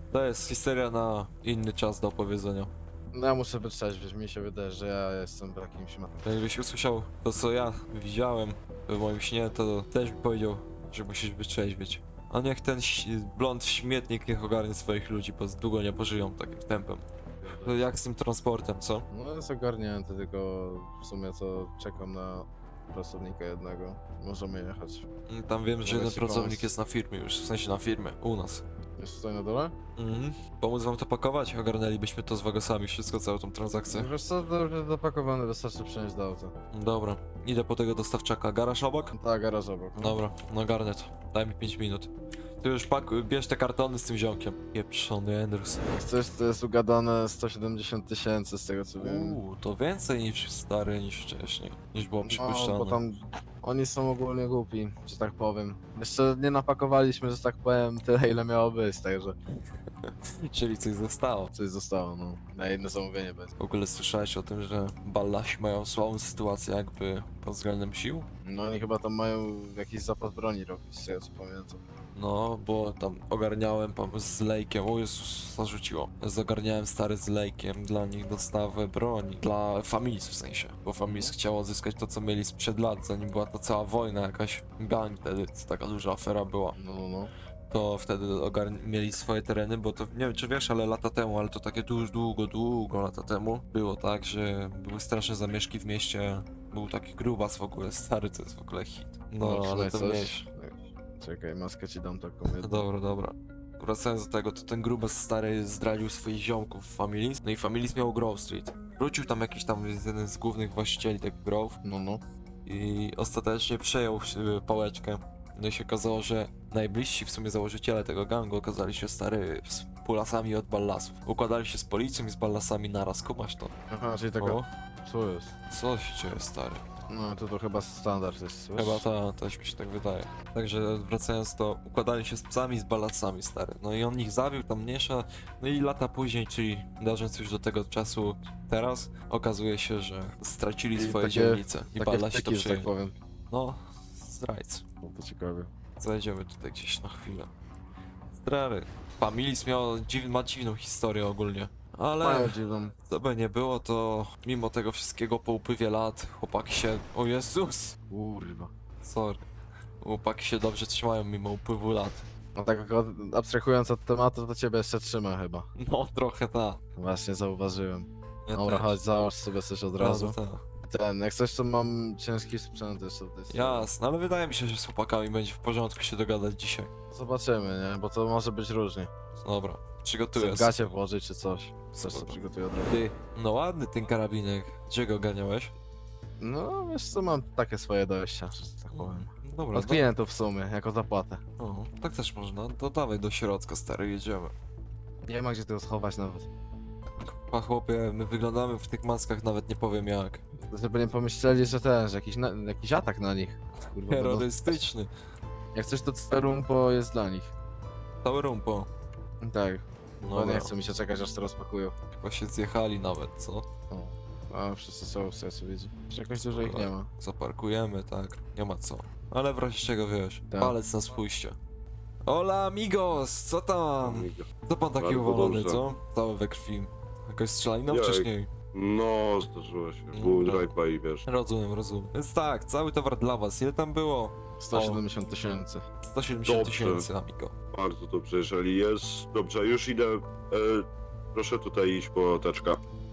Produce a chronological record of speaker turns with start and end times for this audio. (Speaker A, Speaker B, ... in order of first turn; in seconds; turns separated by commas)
Speaker A: 0.1-2.7, Speaker B: 3.1-6.2, Speaker A: 6.2-19.0, Speaker B: 17.4-17.9, Speaker B: 19.1-25.1, Speaker A: 25.3-28.6, Speaker B: 25.9-26.7, Speaker B: 29.0-29.7, Speaker A: 29.9-34.1, Speaker B: 33.9-36.5, Speaker A: 36.7-39.1, Speaker B: 39.1-40.2, Speaker A: 40.0-42.1, Speaker A: 42.6-45.8, Speaker B: 46.0-49.4, Speaker A: 49.0-53.0, Speaker B: 52.2-59.4, Speaker A: 60.0-61.5, Speaker B: 61.5-63.5, Speaker A: 63.6-68.3, Speaker B: 68.4-71.8, Speaker A: 72.1-86.8, Speaker B: 81.0-81.3, Speaker B: 86.8-87.3, Speaker A: 87.7-100.5, Speaker B: 99.4-102.8, Speaker A: 102.6-111.8, Speaker B: 111.8-112.2, Speaker A: 112.7-123.7, Speaker B: 123.9-125.5, Speaker A: 124.4-124.7, Speaker A: 125.7-126.8, Speaker B: 127.1-129.0, Speaker A: 128.8-142.9, Speaker B: 140.9-143.1, Speaker A: 143.5-144.8, Speaker B: 145.0-145.7, Speaker A: 146.0-147.5, Speaker A: 148.3-157.9, Speaker B: 152.2-152.9, Speaker B: 158.1-158.7, Speaker A: 159.0-159.4, Speaker A: 160.0-162.2, Speaker B: 162.6-165.7, Speaker A: 165.8-166.8, Speaker B: 167.0-173.9, Speaker A: 168.4-169.0, Speaker A: 170.0-170.6, Speaker A: 173.5-176.9, Speaker B: 177.1-179.1, Speaker A: 179.4-180.8, Speaker B: 180.3-182.9, Speaker A: 181.9-185.7, Speaker B: 186.4-191.4, Speaker A: 188.9-190.1, Speaker A: 191.6-194.5, Speaker B: 195.2-196.5, Speaker A: 197.2-200.4, Speaker B: 200.6-204.8, Speaker A: 203.9-205.1, Speaker B: 205.7-207.5, Speaker A: 208.2-208.9, Speaker B: 209.4-211.9, Speaker A: 210.2-210.7, Speaker A: 212.1-213.7, Speaker B: 213.9-217.1, Speaker A: 216.3-221.6, Speaker B: 220.5-220.8, Speaker A: 222.2-228.5, Speaker C: 224.0-225.8, Speaker C: 227.9-231.2, Speaker A: 230.1-230.7, Speaker A: 231.2-235.0, Speaker B: 234.6-235.8, Speaker A: 236.0-237.5, Speaker C: 236.4-237.1, Speaker C: 237.7-242.8